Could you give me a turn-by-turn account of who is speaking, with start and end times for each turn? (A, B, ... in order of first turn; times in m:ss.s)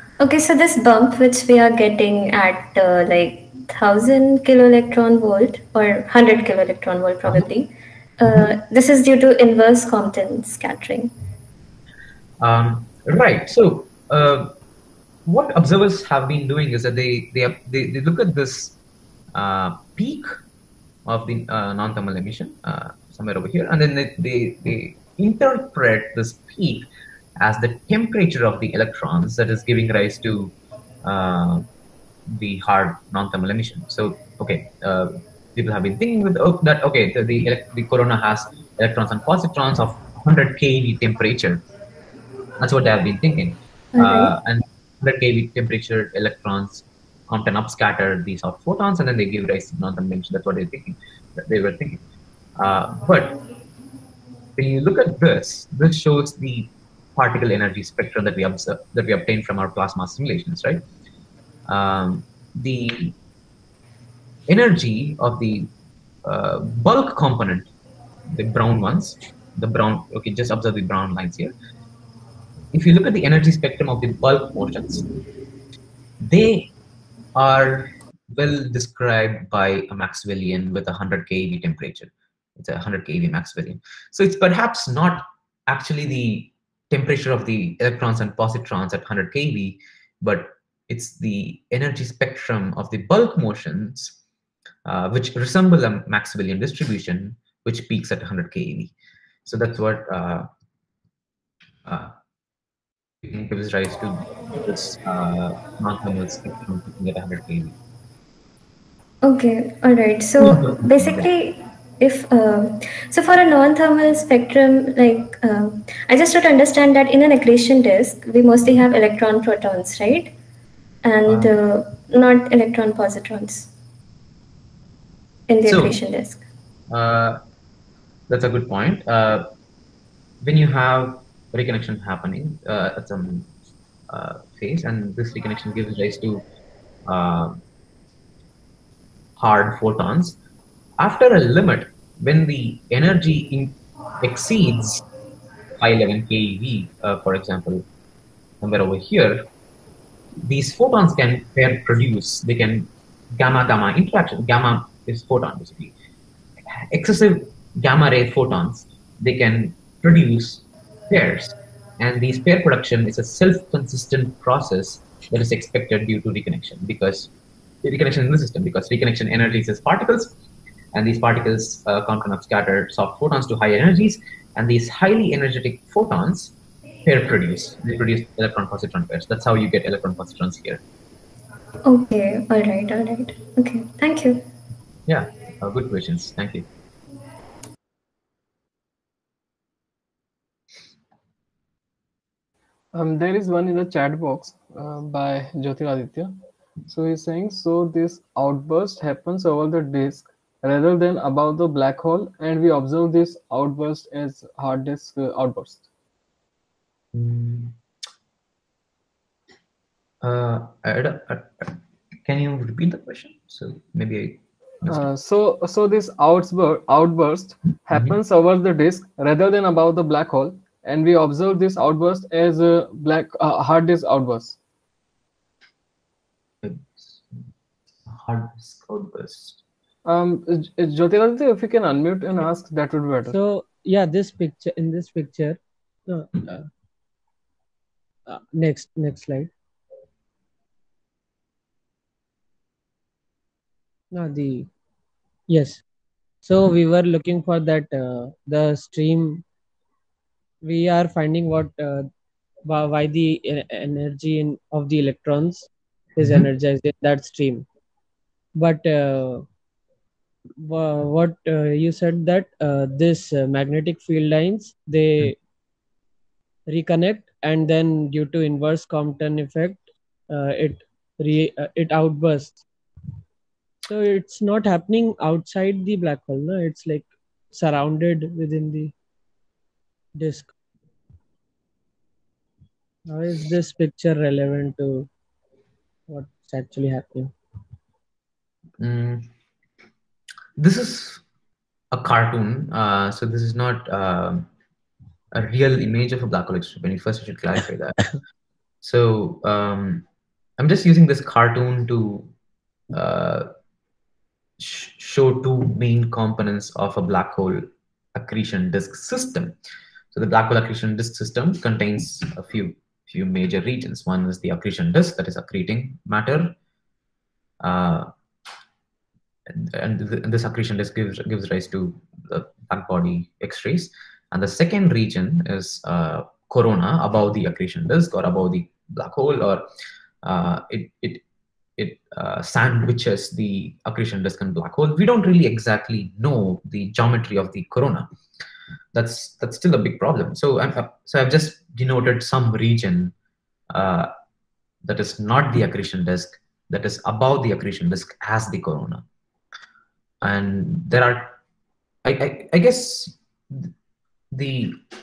0:00.2-0:11.1 A
0:08.2-0:08.5 B
0:12.4-0:14.5 B
0:15.2-0:18.8 B
0:19.3-0:20.3 B
0:21.0-0:26.9 B
0:27.4-0:31.7 B
0:32.3-0:41.6 B
0:42.6-0:52.0 B
0:44.0-0:44.3 A
0:52.6-0:53.4 B
0:54.6-1:00.8 B
1:01.7-1:03.2 B
1:04.5-1:05.7 B
1:06.2-1:07.7 B
1:08.3-1:11.5 B
1:12.7-1:15.1 B
1:16.2-1:16.7 B
1:17.3-1:34.2 B
1:34.8-1:38.9 B
1:39.4-1:40.5 B
1:41.8-1:42.1 B
1:43.2-1:47.8 B
1:49.2-2:00.3 A
1:50.4-1:51.3 B
2:01.0-2:03.7 A
2:01.2-2:01.6 B
2:05.5-2:06.4 A
2:05.6-2:06.0 B
2:06.9-2:07.4 B
2:08.3-2:09.4 B
2:10.4-2:13.5 B
2:14.1-2:16.4 B
2:17.0-2:17.6 B
2:19.4-2:20.4 B
2:21.0-2:25.0 B
2:25.8-2:27.9 B
2:28.6-2:29.5 B
2:30.4-2:35.9 B
2:36.7-2:47.3 B
2:47.8-2:50.3 B
2:50.9-3:00.8 B
3:01.8-3:04.4 A
3:05.1-3:06.7 B
3:12.9-3:16.4 C
3:16.9-3:25.8 C
3:27.1-3:27.8 B
3:30.2-3:35.1 B
3:34.9-3:44.6 C
3:46.6-3:47.4 B
3:48.0-3:49.6 B
3:50.0-3:53.4 C
3:53.2-3:56.6 D
3:58.3-3:59.5 D
4:04.1-4:04.7 D
4:05.5-4:05.8 D
4:06.4-4:09.4 D
4:10.6-4:12.1 D
4:12.6-4:17.6 D
4:18.6-4:19.4 D
4:20.6-4:25.4 D
4:26.7-4:32.6 D
4:33.8-4:38.9 D
4:40.2-4:40.5 D
4:43.1-4:45.1 D
4:46.1-4:47.3 D
4:48.8-4:49.3 B
4:50.6-4:51.2 B
4:51.9-4:54.5 B
4:55.3-4:58.1 B
4:58.8-5:00.0 B
5:00.6-5:02.3 B
5:02.9-5:03.5 B
5:04.6-5:09.6 B
5:10.1-5:16.6 B
5:17.6-5:18.1 B
5:19.5-5:29.6 B
5:30.2-5:31.2 B
5:31.8-5:38.1 B
5:38.9-5:43.1 B
5:43.7-5:44.1 B
5:44.8-5:49.0 B
5:50.2-5:51.4 B
5:52.0-5:53.7 B
5:54.3-5:54.8 B